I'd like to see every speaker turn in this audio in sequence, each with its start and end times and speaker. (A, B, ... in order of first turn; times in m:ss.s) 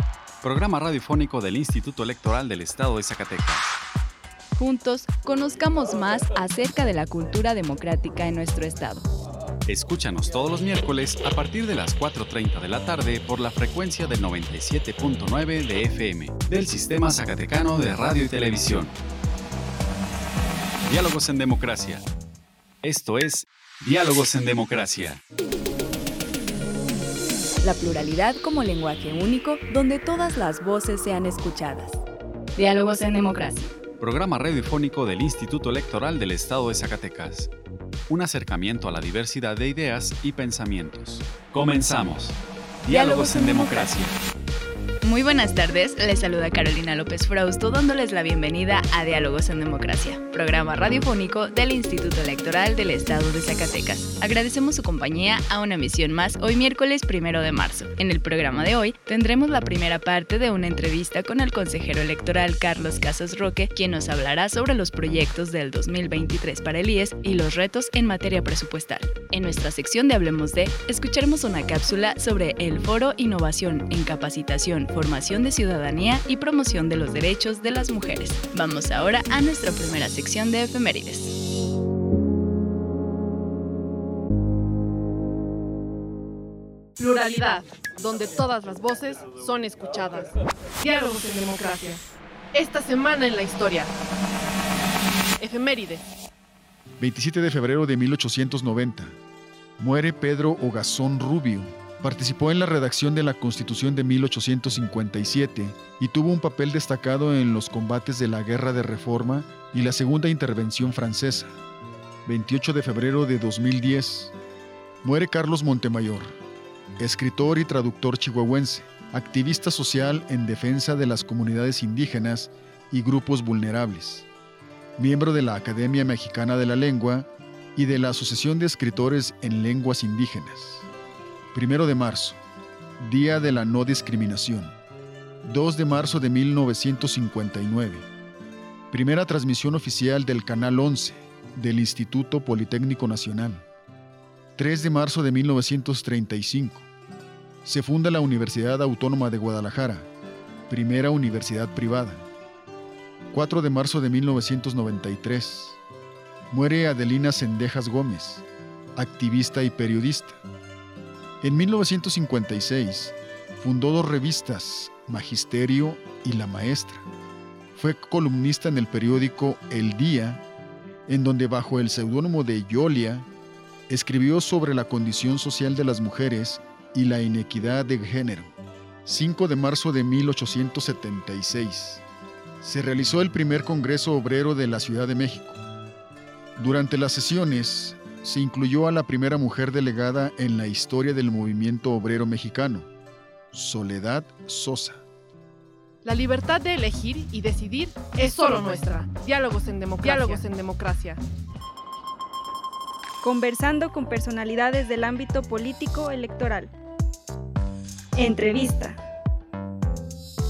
0:00.4-0:03.7 A
0:04.6-0:09.1 B
0:09.6-0:18.9 A
0:20.9-0:22.0 A
0:22.8-0:25.2 A
0:27.6-0:32.0 B
0:32.6-0:33.7 B
0:34.0-0:37.5 A
0:38.1-0:44.2 A
0:42.9-0:44.0 B
0:45.0-1:21.4 B
1:27.0-1:32.0 C
1:32.5-1:33.9 C
1:35.4-1:36.0 C
1:37.0-1:39.2 D
1:39.8-1:51.5 D
1:52.2-1:54.3 D
1:55.0-1:56.3 D
1:57.0-2:04.3 D
2:05.0-2:10.9 D
2:11.5-2:12.4 D
2:13.0-2:14.7 D
2:15.4-2:18.0 D
2:18.9-2:23.6 D
2:24.6-2:26.8 D
2:27.6-2:30.1 D
2:30.7-2:32.2 D
2:33.3-2:35.8 D
2:36.5-2:38.4 D
2:39.0-2:40.4 D
2:41.4-2:47.0 D
2:47.7-2:50.4 D
2:51.1-2:53.3 D
2:53.9-2:58.5 D
2:59.0-3:02.0 D
3:02.6-3:05.6 D
3:06.6-3:12.9 D
3:13.5-3:15.0 D
3:16.0-3:21.2 C
3:23.2-3:26.7 E
3:28.2-3:29.0 E